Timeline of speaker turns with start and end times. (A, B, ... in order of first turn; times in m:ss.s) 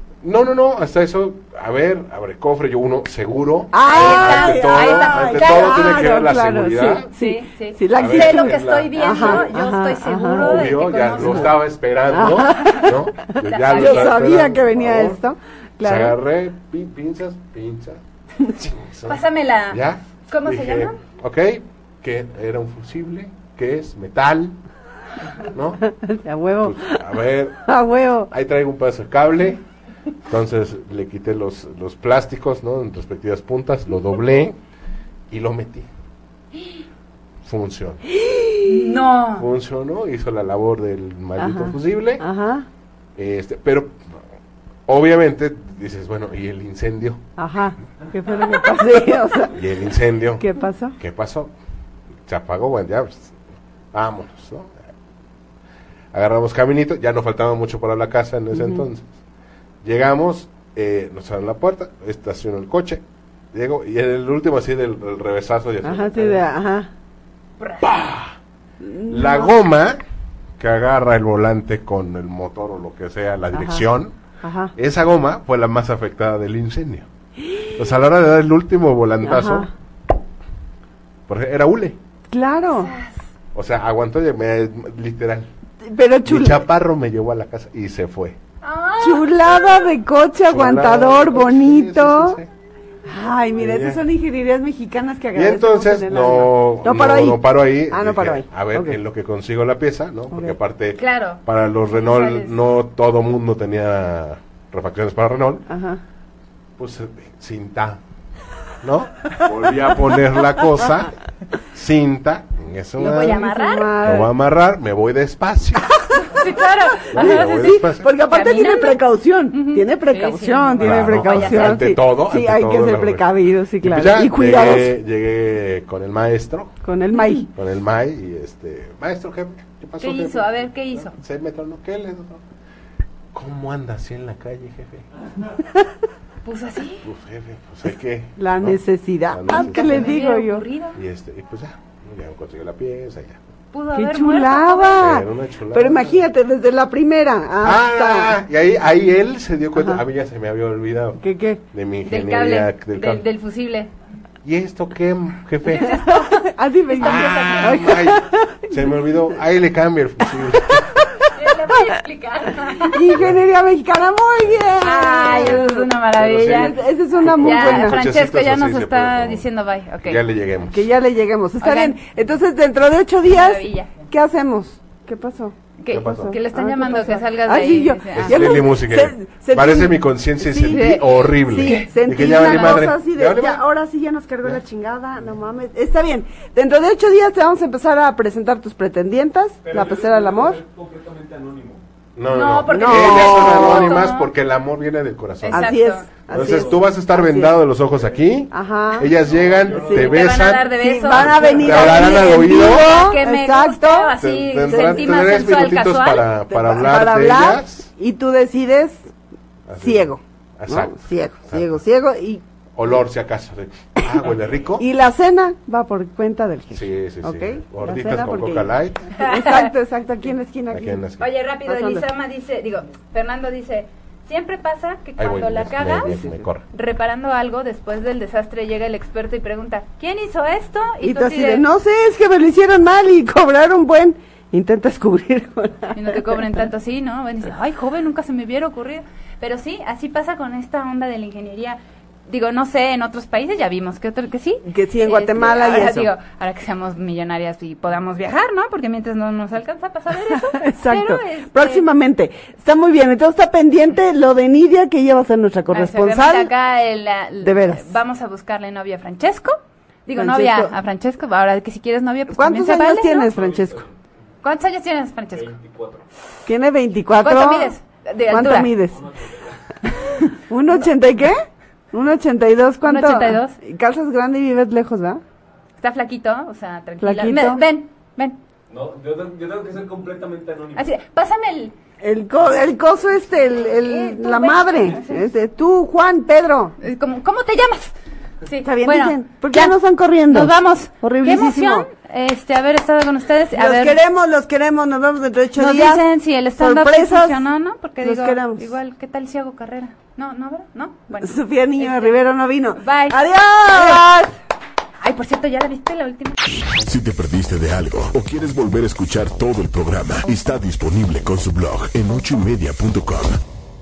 0:00.2-0:07.1 A
0:03.7-0:11.5 B
0:03.8-0:05.9 C
0:07.1-0:11.6 C
0:07.9-0:09.5 A
0:10.3-0:15.2 A
0:12.1-0:16.2 B
0:12.6-0:12.9 C
0:13.4-0:14.1 C
0:15.8-0:24.6 A
0:19.1-0:21.0 C
0:25.5-0:25.8 A
0:25.9-0:28.3 B
0:26.6-0:27.6 A
0:28.3-0:29.6 A
0:30.3-0:34.6 A
0:35.3-0:35.9 A
0:37.4-0:38.0 A
0:38.1-0:39.0 B
0:38.6-0:39.4 C
0:39.4-0:42.2 A
0:41.4-0:42.7 B
0:43.2-0:44.2 A
0:44.9-0:47.2 A
0:47.4-0:49.6 B
0:49.5-0:50.4 A
0:50.4-0:51.0 B
0:51.0-0:51.5 A
0:52.3-0:53.4 A
0:53.9-0:54.8 A
0:56.1-0:59.2 A
0:58.5-0:58.8 B
0:59.8-1:03.0 A
1:03.5-1:06.4 A
1:05.8-1:06.9 B
1:07.8-1:08.4 A
1:08.8-1:09.5 B
1:09.0-1:10.0 A
1:10.6-1:14.2 A
1:13.5-1:13.8 B
1:14.4-1:14.7 B
1:14.8-1:17.1 A
1:17.6-1:19.7 A
1:19.2-1:19.7 B
1:21.3-1:22.0 A
1:22.3-1:22.9 B
1:22.7-1:23.2 C
1:23.5-1:25.5 A
1:25.8-1:26.6 B
1:26.2-1:28.4 A
1:28.6-1:29.9 C
1:29.0-1:32.4 B
1:30.5-1:32.5 A
1:33.1-1:39.0 B
1:33.6-1:34.0 A
1:35.4-1:45.7 A
1:41.0-1:42.6 C
1:45.7-1:46.0 B
1:46.8-1:48.0 A
1:48.8-1:51.2 A
1:51.7-1:53.4 A
1:53.0-1:54.0 C
1:53.0-1:54.3 B
1:54.0-1:56.0 A
1:56.2-1:59.0 C
1:57.1-1:58.1 A
1:57.1-2:05.0 B
1:59.5-2:01.8 C
2:00.8-2:06.8 A
2:06.8-2:07.5 B
2:07.6-2:12.4 A
2:10.0-2:11.1 C
2:13.3-2:15.1 A
2:16.4-2:17.1 C
2:17.0-2:20.2 A
2:18.4-2:20.7 B
2:19.5-2:21.0 C
2:21.0-2:23.4 A
2:23.7-2:25.0 C
2:23.9-2:28.4 B
2:25.0-2:26.2 A
2:27.6-2:33.2 A
2:29.8-2:30.0 B
2:31.2-2:31.6 B
2:32.1-2:33.9 C
2:34.4-2:36.1 A
2:35.8-2:37.9 C
2:35.9-2:39.1 B
2:37.0-2:41.1 A
2:40.4-2:40.9 B
2:41.3-2:43.2 C
2:42.9-2:45.9 B
2:44.8-2:50.2 C
2:45.2-2:49.5 A
2:46.4-2:48.0 B
2:50.0-2:50.8 A
2:50.7-3:10.6 B
2:51.6-2:52.0 C
2:53.2-2:54.1 C
2:55.8-2:58.6 C
2:55.9-2:56.4 A
2:58.1-3:03.6 A
3:00.7-3:02.9 C
3:09.6-3:11.8 D
3:12.2-3:22.9 A
3:12.3-3:14.3 C
3:12.7-3:14.1 B
3:15.4-3:16.1 C
3:15.5-3:17.6 B
3:16.3-3:16.8 D
3:18.5-3:19.1 B
3:19.2-3:20.4 D
3:19.7-3:24.2 B
3:19.9-3:26.3 C
3:24.2-3:27.9 A
3:24.7-3:25.7 B
3:26.5-3:29.1 B
3:29.7-3:31.8 A
3:29.8-3:32.4 B
3:32.8-3:34.8 A
3:34.8-3:41.0 B
3:36.7-3:39.1 A
3:39.1-3:39.7 C
3:40.7-3:41.3 A
3:41.2-3:51.6 C
3:41.7-3:42.1 B
3:45.2-3:46.6 A
3:46.1-3:46.5 B
3:51.0-3:56.2 B
3:55.9-4:11.9 C
4:04.6-4:06.1 B
4:10.3-4:16.5 B
4:15.7-4:23.3 C
4:17.4-4:17.9 B
4:20.2-4:20.7 B
4:22.3-4:23.9 B
4:23.3-4:24.0 D
4:24.4-4:25.5 C
4:25.4-4:26.0 D
4:26.5-4:27.8 B
4:27.2-4:28.7 C
4:28.3-4:29.0 B
4:28.9-4:30.0 D
4:30.4-4:35.2 B
4:32.8-4:33.6 C
4:35.8-4:38.4 C
4:37.0-4:37.6 B
4:38.7-4:40.9 D
4:40.8-4:41.7 C
4:42.0-4:46.8 B
4:43.7-4:45.3 C
4:46.8-4:49.8 C
4:48.6-4:51.9 B
4:50.3-4:54.0 C
4:53.5-4:57.4 B
4:55.6-5:02.2 C
4:58.0-4:58.7 B
5:01.2-5:04.3 B
5:02.8-5:04.0 C
5:05.0-5:06.4 C
5:06.8-5:13.4 E